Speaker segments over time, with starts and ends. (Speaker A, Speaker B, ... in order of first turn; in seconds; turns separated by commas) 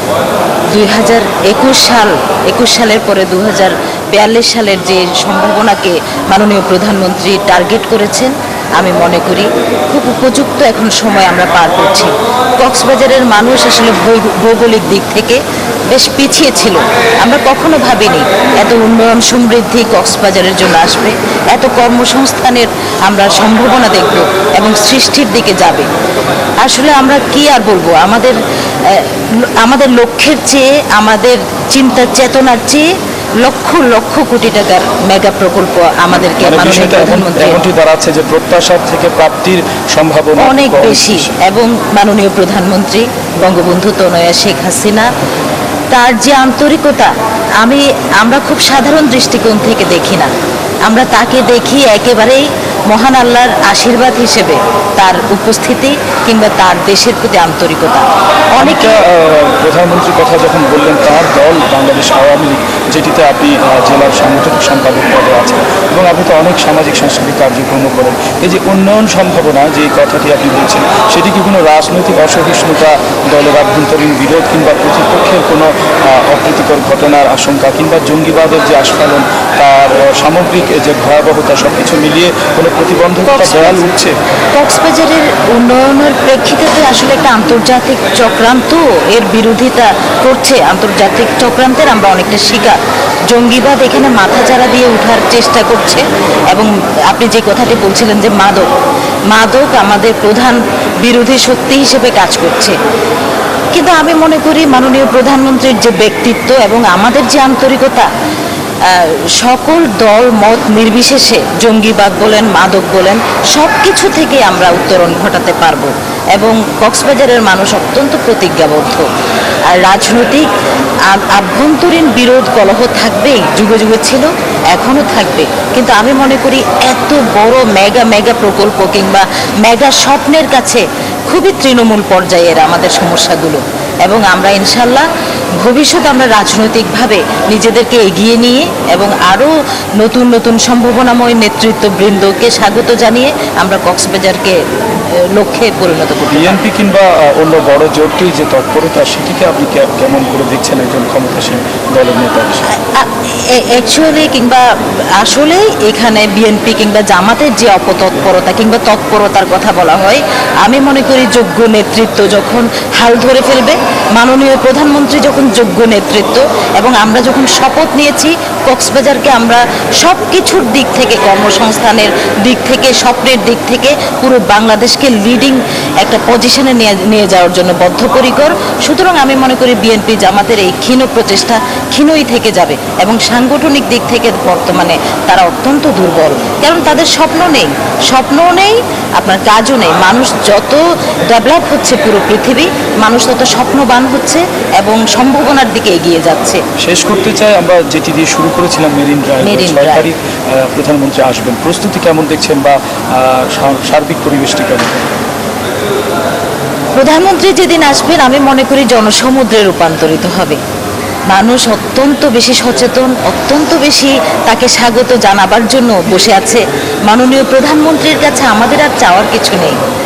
Speaker A: 0.7-25.9, Speaker A: 26.6-32.9, Speaker A: 33.4-37.6, Speaker B: 36.4-41.4, Speaker A: 40.4-45.1, Speaker A: 45.9-50.3, Speaker A: 50.9-59.0, Speaker B: 58.6-84.2, Speaker A: 83.3-83.9, Speaker A: 84.5-92.8, Speaker A: 93.3-98.7, Speaker A: 99.3-102.8, Speaker A: 103.7-108.1, Speaker A: 108.9-119.1, Speaker A: 119.7-120.5, Speaker A: 121.1-135.1, Speaker A: 135.6-144.6, Speaker A: 145.1-146.6, Speaker B: 146.3-152.7, Speaker A: 152.7-196.6, Speaker B: 196.8-205.1, Speaker A: 199.4-200.1, Speaker A: 207.0-210.6, Speaker A: 211.3-219.8